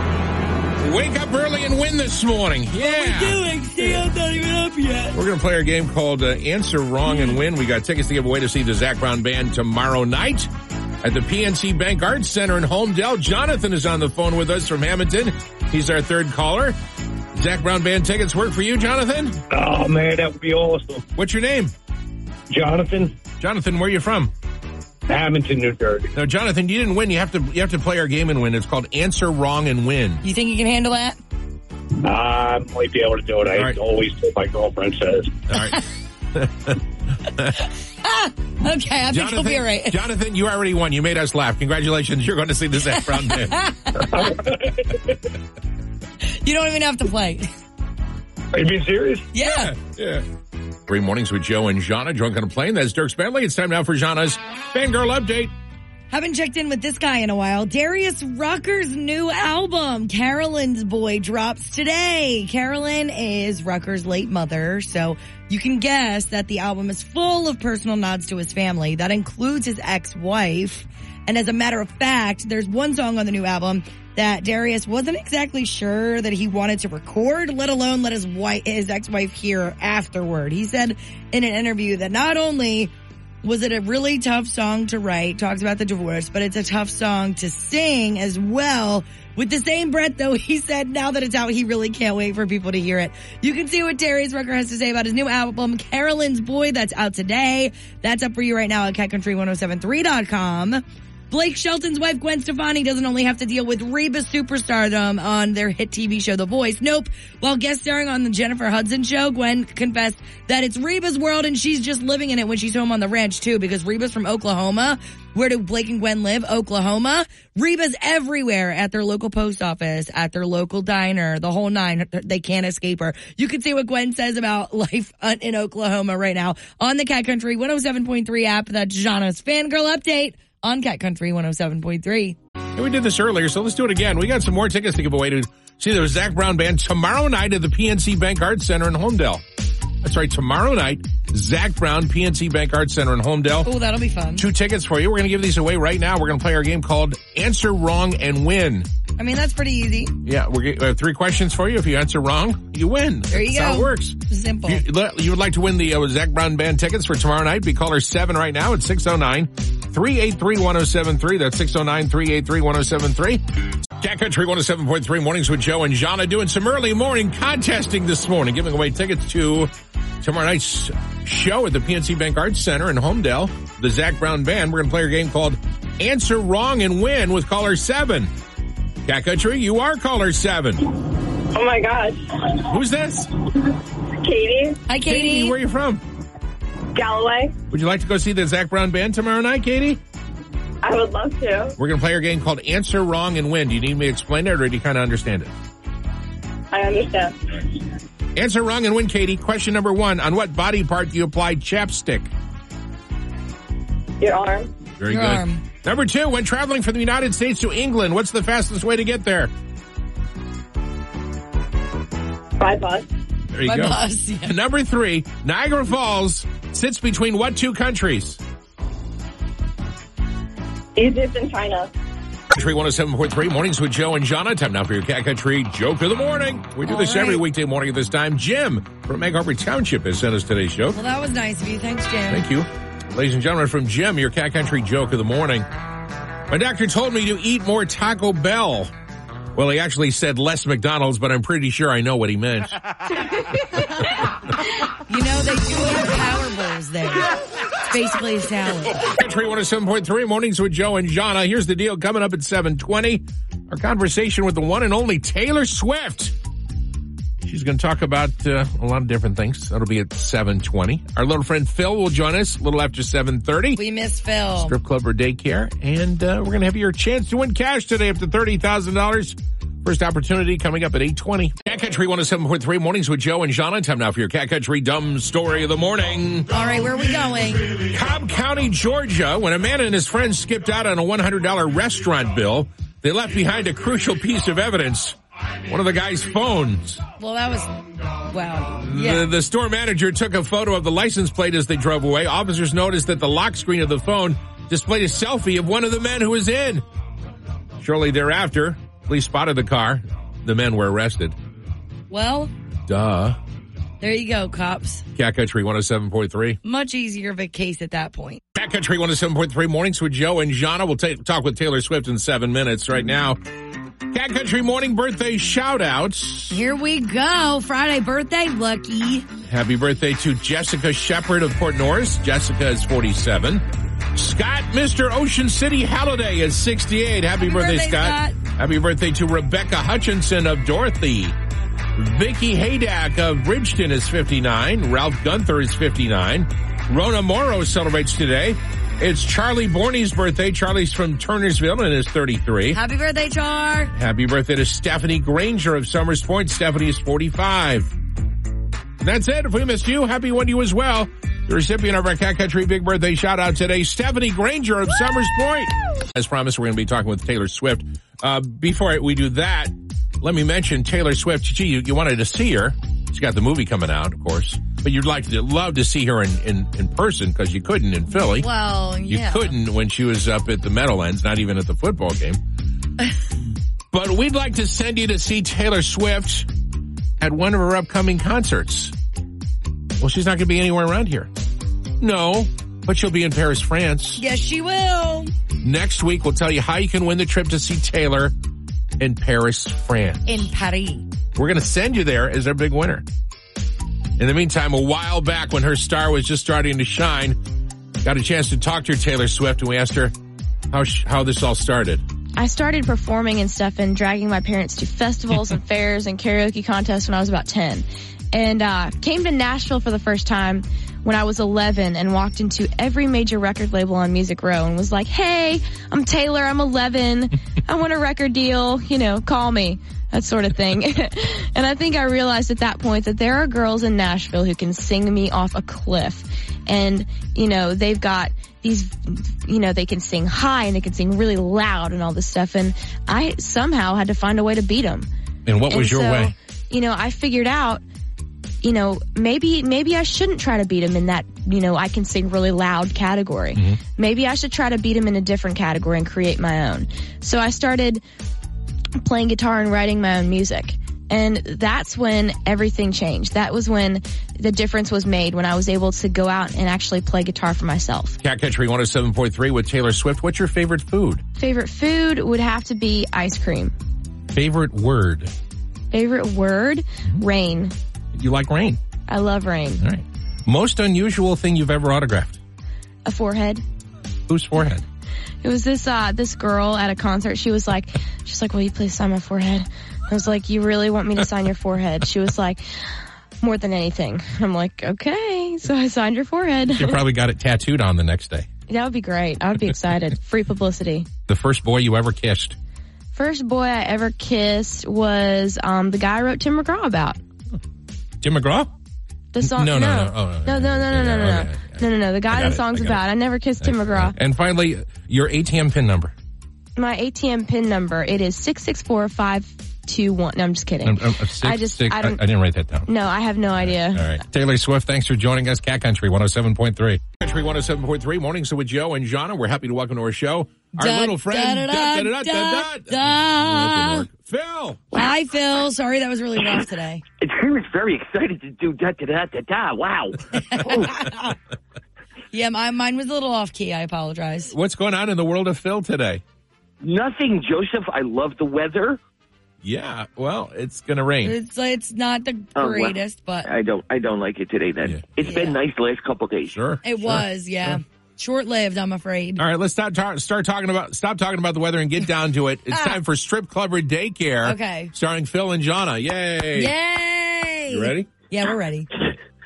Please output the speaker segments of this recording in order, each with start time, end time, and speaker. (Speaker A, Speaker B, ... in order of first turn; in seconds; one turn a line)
Speaker A: 0.8-4.0
Speaker B: 2.8-5.2
Speaker A: 5.1-10.5
Speaker A: 11.0-16.8
Speaker A: 17.3-19.4
Speaker C: 19.5-21.0
Speaker A: 21.2-21.7
Speaker C: 22.5-23.1
Speaker A: 23.4-24.3
Speaker C: 25.1-26.1
Speaker A: 26.1-30.2
Speaker B: 30.2-31.2
Speaker C: 32.0-35.4
Speaker A: 35.5-37.5
Speaker B: 37.6-40.0
Speaker A: 39.1-43.6
Speaker B: 43.2-44.3
Speaker B: 46.3-47.5
Speaker C: 48.5-49.3
Speaker B: 49.3-49.7
Speaker A: 49.4-50.2
Speaker A: 50.9-55.5
Speaker B: 56.1-82.9
Speaker B: 83.4-132.4
Speaker A: 132.8-139.4
Speaker A: 140.0-143.7
Speaker B: 143.6-144.4
Speaker A: 144.4-148.9
Speaker B: 149.2-150.1
Speaker A: 150.2-163.4
Speaker B: 153.3-154.8
Speaker A: 164.0-169.7
Speaker A: 170.2-178.3
Speaker A: 179.1-180.9
Speaker D: 181.4-182.5
Speaker A: 182.7-183.3
Speaker D: 184.2-184.8
Speaker B: 184.9-185.6
Speaker A: 185.1-186.0
Speaker D: 186.9-187.6
Speaker A: 187.7-190.0
Speaker D: 190.8-191.8
Speaker A: 191.8-195.5
Speaker D: 196.7-197.8
Speaker A: 198.4-202.3
Speaker D: 204.2-204.7
Speaker A: 205.0-209.5
Speaker B: 205.1-205.6
Speaker D: 212.6-213.1
Speaker A: 213.5-218.4
Speaker B: 213.7-214.5
Speaker D: 221.0-221.9
Speaker A: 222.5-231.0
Speaker B: 226.9-227.4
Speaker B: 230.9-232.4
Speaker A: 232.3-235.7
Speaker A: 236.5-238.9
Speaker A: 239.6-242.8
Speaker B: 245.1-249.1
Speaker A: 249.1-256.3
Speaker A: 257.4-263.8
Speaker B: 263.8-264.7
Speaker A: 264.6-276.5
Speaker B: 276.5-277.8
Speaker A: 277.9-287.0
Speaker B: 287.2-289.3
Speaker A: 288.8-296.8
Speaker A: 297.8-301.4
Speaker B: 302.1-302.5
Speaker A: 302.9-303.4
Speaker B: 304.0-305.0
Speaker A: 305.1-306.6
Speaker B: 306.6-308.4
Speaker A: 308.6-313.4
Speaker A: 314.1-316.6
Speaker B: 316.5-319.3
Speaker A: 319.4-323.6
Speaker A: 324.1-331.4
Speaker B: 327.4-328.4
Speaker A: 331.9-342.8
Speaker B: 342.7-343.9
Speaker A: 343.9-347.9
Speaker A: 349.0-368.5
Speaker B: 368.1-369.6
Speaker A: 369.1-372.4
Speaker A: 373.9-376.5
Speaker A: 377.2-378.9
Speaker A: 380.0-381.3
Speaker A: 382.0-384.2
Speaker B: 384.2-385.3
Speaker A: 385.6-388.3
Speaker A: 389.0-390.5
Speaker B: 390.3-391.1
Speaker A: 391.4-393.1
Speaker A: 394.2-397.4
Speaker A: 398.0-400.1
Speaker A: 400.7-402.0
Speaker E: 402.4-435.1
Speaker A: 435.5-436.3
Speaker E: 435.7-437.8
Speaker E: 438.6-448.0
Speaker E: 449.0-458.2
Speaker A: 458.2-461.2
Speaker E: 461.4-463.7
Speaker A: 464.3-465.3
Speaker E: 465.9-467.7
Speaker A: 468.1-468.8
Speaker E: 469.1-469.8
Speaker A: 469.8-472.4
Speaker E: 473.1-473.6
Speaker A: 474.3-474.8
Speaker E: 475.4-482.6
Speaker E: 483.4-487.0
Speaker A: 486.7-488.5
Speaker E: 488.7-491.1
Speaker A: 491.3-492.6
Speaker E: 493.1-497.2
Speaker A: 498.2-498.7
Speaker E: 499.3-504.2
Speaker A: 499.4-503.0
Speaker A: 503.6-506.1
Speaker E: 506.8-512.2
Speaker A: 510.8-512.9
Speaker E: 512.9-514.1
Speaker A: 513.6-524.9
Speaker B: 520.8-524.1
Speaker B: 524.9-527.0
Speaker F: 527.2-531.1
Speaker B: 530.4-531.4
Speaker B: 532.3-534.5
Speaker A: 534.5-536.2
Speaker F: 536.8-539.0
Speaker A: 539.6-541.4
Speaker B: 541.2-543.5
Speaker F: 542.6-546.6
Speaker B: 545.2-545.6
Speaker A: 546.5-547.7
Speaker B: 546.8-549.4
Speaker A: 549.4-556.7
Speaker B: 552.7-553.0
Speaker B: 554.4-554.9
Speaker B: 556.5-559.0
Speaker A: 557.7-558.1